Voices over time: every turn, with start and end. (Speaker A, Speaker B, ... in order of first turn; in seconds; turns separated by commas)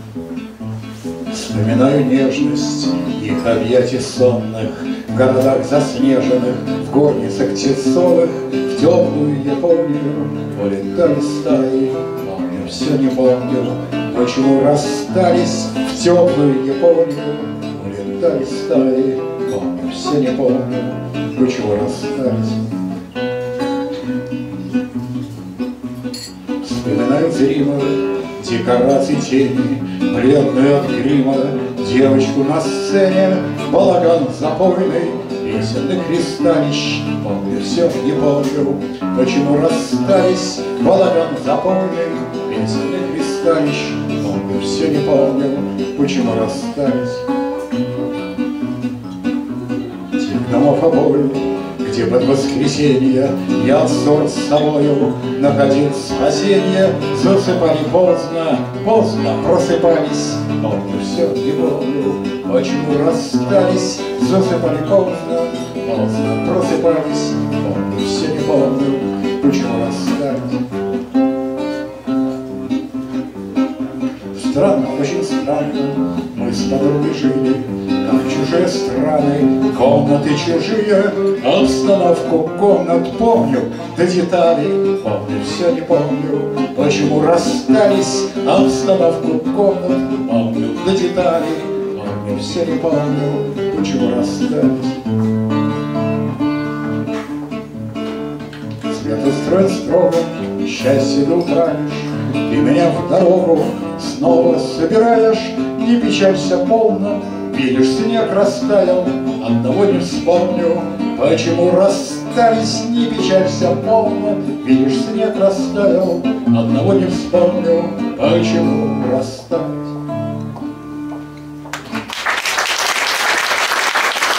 Speaker A: 1.3-22.7, Speaker A: 26.6-47.3, Speaker A: 50.1-70.6, Speaker A: 74.3-95.0, Speaker A: 98.9-119.9